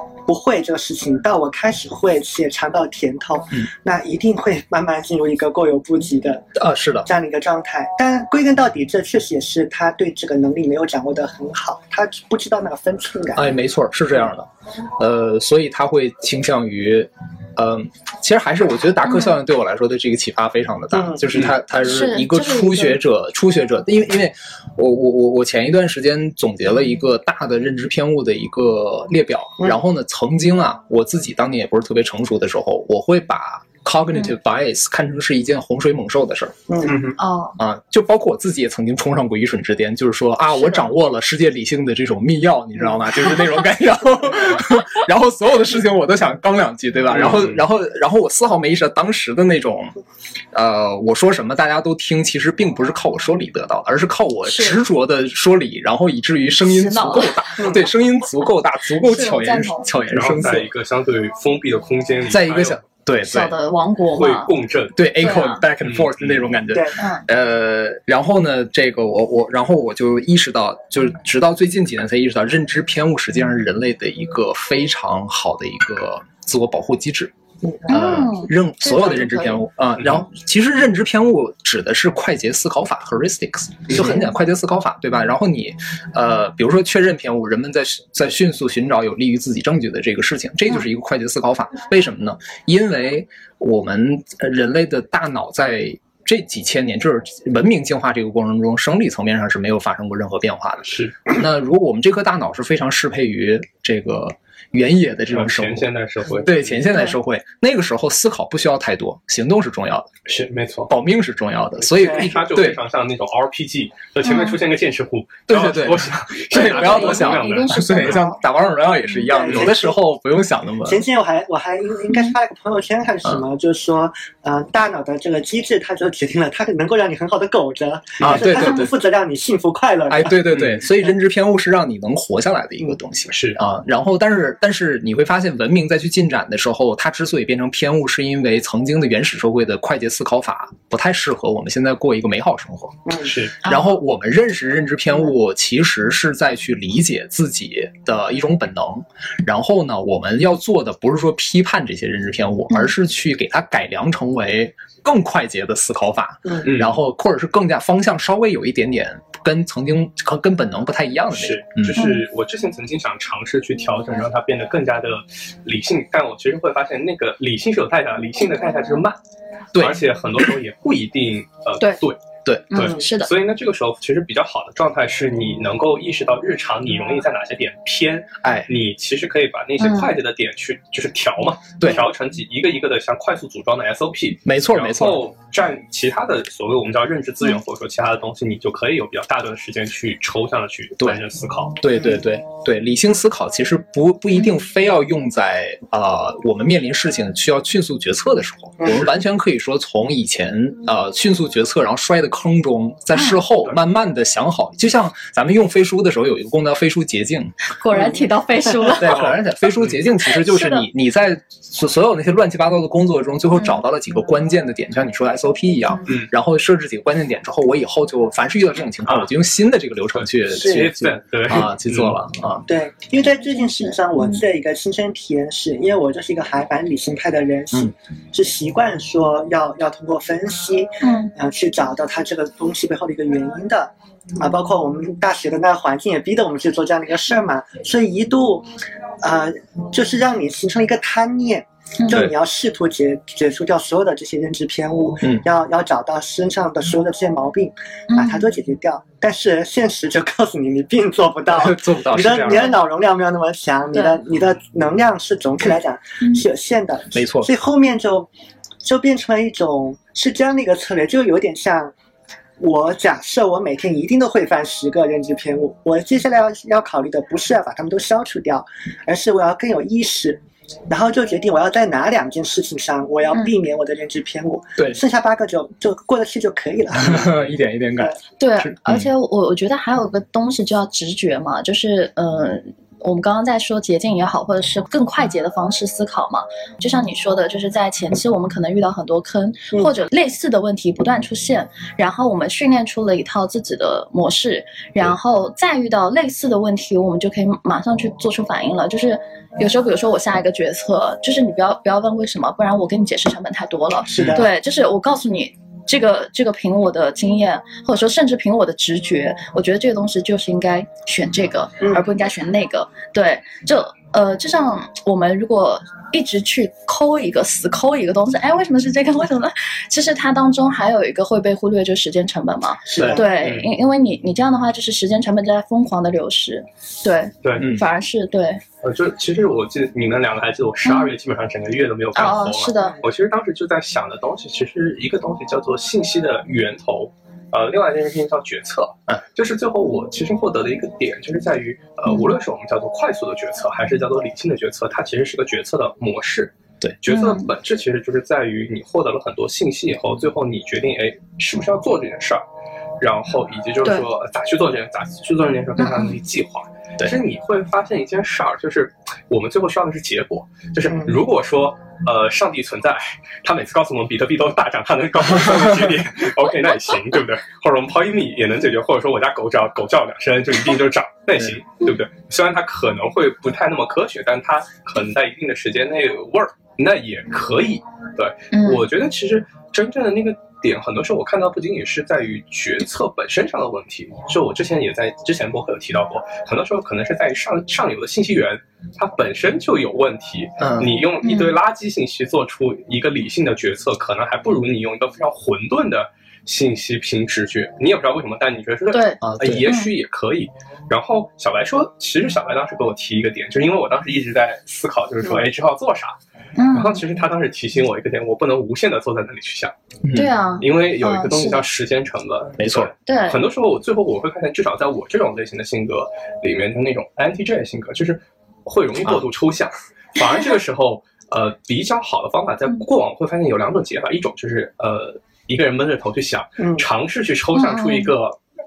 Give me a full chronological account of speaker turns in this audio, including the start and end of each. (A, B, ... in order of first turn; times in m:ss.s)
0:00.3-0:06.4 A
0:06.6-0:07.1 B
0:07.0-0:13.5 A
0:13.4-0:36.6 B
0:19.0-0:19.4 C
0:20.9-0:21.2 A
0:21.3-0:21.6 D
0:21.7-0:23.0 C
0:36.7-0:37.0 A
0:36.8-0:37.2 D
0:37.2-0:37.6 C
0:37.6-0:50.0 B
0:47.1-0:47.6 D
0:50.5-1:00.7 B
0:54.4-0:54.8 C
0:56.7-0:57.6 C
0:57.6-0:57.8 A
0:59.0-0:59.9 C
1:00.1-1:02.8 D
1:02.3-1:03.5 B
1:03.2-1:04.5 C
1:04.1-1:05.0 D
1:04.9-1:17.3 B
1:05.2-1:05.6 C
1:05.8-1:06.4 D
1:06.7-1:07.0 A
1:07.0-1:07.2 C
1:17.9-1:45.9 B
1:17.9-1:19.6 C
1:20.0-1:20.2 D
1:40.8-1:41.2 D
1:45.3-1:46.8 D
1:46.4-1:50.1 B
1:50.3-1:50.9 D
1:50.9-1:52.8 B
1:51.8-1:58.2 D
1:54.2-1:54.6 C
1:55.5-2:01.0 B
1:56.5-1:58.4 C
1:59.3-2:00.0 A
2:00.8-2:10.4 A
2:08.2-2:08.9 B
2:10.1-2:23.1 B
2:10.5-2:10.8 D
2:13.3-2:13.6 D
2:23.1-2:23.3 A
2:23.2-2:23.6 D
2:23.6-2:42.0 B
2:23.6-2:23.9 C
2:36.6-2:36.9 D
2:41.3-2:49.2 D
2:42.0-2:42.2 C
2:49.7-2:50.1 B
2:49.7-2:52.2 D
2:52.4-2:52.9 B
2:52.7-2:53.3 C
2:52.7-3:11.8 D
2:58.4-2:58.7 B
2:59.8-3:00.1 C
3:01.8-3:02.0 B
3:04.4-3:05.2 B
3:11.8-3:27.5 B
3:18.8-3:19.0 A
3:23.1-3:23.4 C
3:27.7-3:29.2 C
3:28.9-3:42.7 B
3:29.0-3:29.9 D
3:30.3-3:30.9 C
3:39.0-3:39.3 D
3:40.2-3:42.2 D
3:40.6-3:40.9 A
3:42.7-3:58.7 A
3:43.8-3:44.4 C
3:51.0-3:51.3 C
3:59.2-4:18.3 A
4:02.0-4:02.2 C
4:08.1-4:08.4 C
4:11.5-4:12.8 B
4:13.9-4:14.2 C
4:17.1-4:17.5 B
4:18.8-4:21.9 A
4:22.6-4:38.2 A
4:36.9-4:39.1 B
4:38.4-5:28.6 C
5:04.1-5:04.4 A
5:04.2-5:04.4 B
5:22.9-5:23.2 A
5:22.9-5:23.2 B
5:23.4-5:23.7 D
5:27.4-5:27.7 D
5:27.6-5:27.8 B
5:28.8-5:52.4 D
5:30.8-5:31.1 C
5:32.1-5:33.0 C
5:47.1-5:47.5 C
5:53.0-6:46.2 D
5:55.8-5:56.2 C
6:00.9-6:01.1 A
6:18.5-6:18.8 C
6:30.6-6:31.0 B
6:31.2-6:31.6 C
6:38.9-6:39.9 C
6:39.2-6:39.7 B
6:46.6-6:47.0 C
6:46.7-6:49.7 D
6:50.0-6:50.3 B
6:50.1-6:51.7 C
6:50.6-7:08.4 D
6:52.6-6:52.9 B
6:53.0-6:53.4 C
7:06.6-7:06.8 A
7:07.5-7:08.1 C